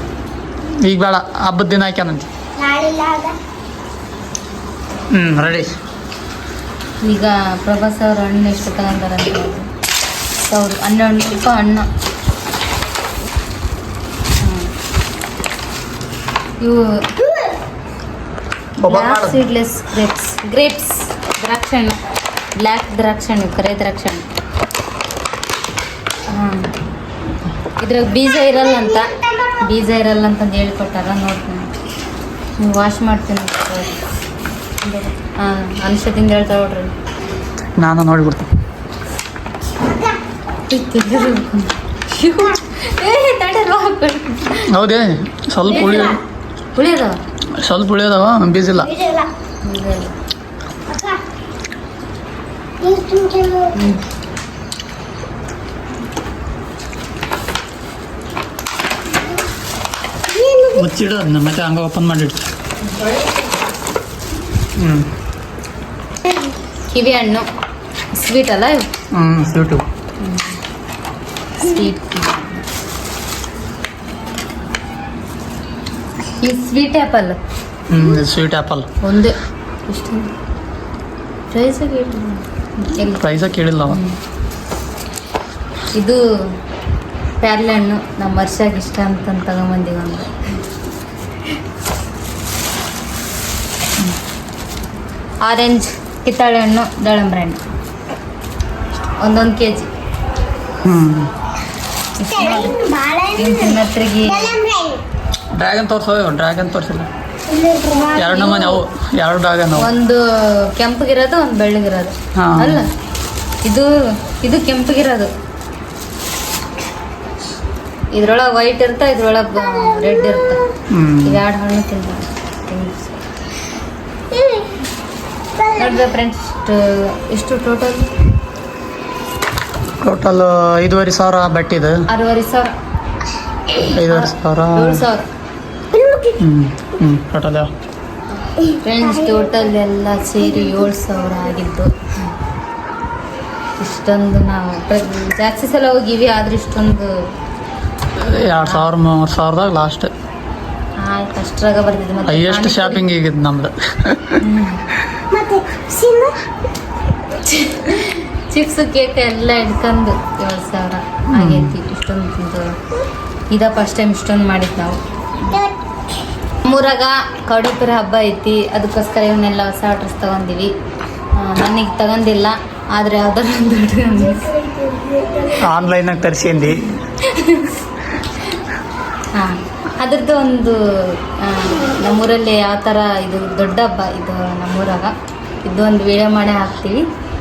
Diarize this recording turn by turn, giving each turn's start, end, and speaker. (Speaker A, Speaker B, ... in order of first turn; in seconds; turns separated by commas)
Speaker A: 0.7-2.3, Speaker B: 2.6-3.4, Speaker A: 5.1-5.8, Speaker C: 7.0-9.7, Speaker C: 10.4-11.9, Speaker C: 14.4-14.7, Speaker C: 16.6-17.0, Speaker A: 18.8-19.4, Speaker C: 18.9-22.0, Speaker C: 22.6-24.2, Speaker C: 26.3-26.7, Speaker C: 27.8-31.7, Speaker B: 28.5-29.6, Speaker C: 32.6-34.0, Speaker C: 34.8-36.9, Speaker A: 37.8-38.5, Speaker B: 39.8-40.2, Speaker C: 40.7-44.7, Speaker A: 44.7-46.2, Speaker B: 45.6-46.2, Speaker C: 45.7-46.0, Speaker C: 46.8-47.2, Speaker A: 47.6-48.9, Speaker B: 48.8-49.3, Speaker C: 49.6-50.1, Speaker B: 50.9-51.2, Speaker B: 52.8-53.8, Speaker C: 53.8-54.0, Speaker B: 60.3-60.9, Speaker A: 60.8-62.5, Speaker A: 64.8-65.1, Speaker B: 66.3-66.5, Speaker C: 66.9-67.5, Speaker C: 68.2-68.9, Speaker A: 69.1-69.8, Speaker C: 70.2-70.5, Speaker C: 71.6-72.7, Speaker C: 76.4-77.4, Speaker A: 77.9-78.9, Speaker C: 79.0-79.3, Speaker C: 79.9-80.3, Speaker C: 81.5-83.3, Speaker A: 83.2-84.0, Speaker C: 83.9-84.2, Speaker C: 86.0-86.2, Speaker C: 87.4-90.3, Speaker C: 95.4-97.6, Speaker C: 99.2-99.9, Speaker A: 100.8-101.3, Speaker C: 102.2-102.8, Speaker B: 102.3-105.0, Speaker C: 103.4-104.6, Speaker A: 105.6-107.1, Speaker B: 107.5-108.8, Speaker A: 108.2-109.9, Speaker C: 109.8-112.9, Speaker A: 112.4-112.8, Speaker C: 113.7-115.3, Speaker C: 118.1-120.6, Speaker A: 120.9-121.4, Speaker C: 121.2-123.2, Speaker B: 124.3-124.8, Speaker B: 125.6-126.1, Speaker C: 125.8-128.1, Speaker A: 130.0-132.0, Speaker C: 132.1-132.7, Speaker A: 133.9-135.0, Speaker C: 134.0-135.2, Speaker B: 135.9-136.4, Speaker A: 136.4-137.7, Speaker B: 138.6-139.6, Speaker C: 138.8-141.9, Speaker B: 140.6-140.9, Speaker C: 143.8-147.2, Speaker A: 148.2-150.1, Speaker C: 148.3-148.9, Speaker C: 151.0-153.0, Speaker A: 152.2-154.4, Speaker C: 154.4-154.8, Speaker B: 155.3-156.4, Speaker C: 157.4-162.7, Speaker A: 161.3-161.7, Speaker C: 163.5-165.6, Speaker B: 165.5-165.8, Speaker C: 166.6-170.7, Speaker C: 171.4-174.5, Speaker B: 174.2-175.9, Speaker A: 175.6-176.8, Speaker C: 177.2-177.8, Speaker C: 179.3-185.1, Speaker C: 185.6-187.0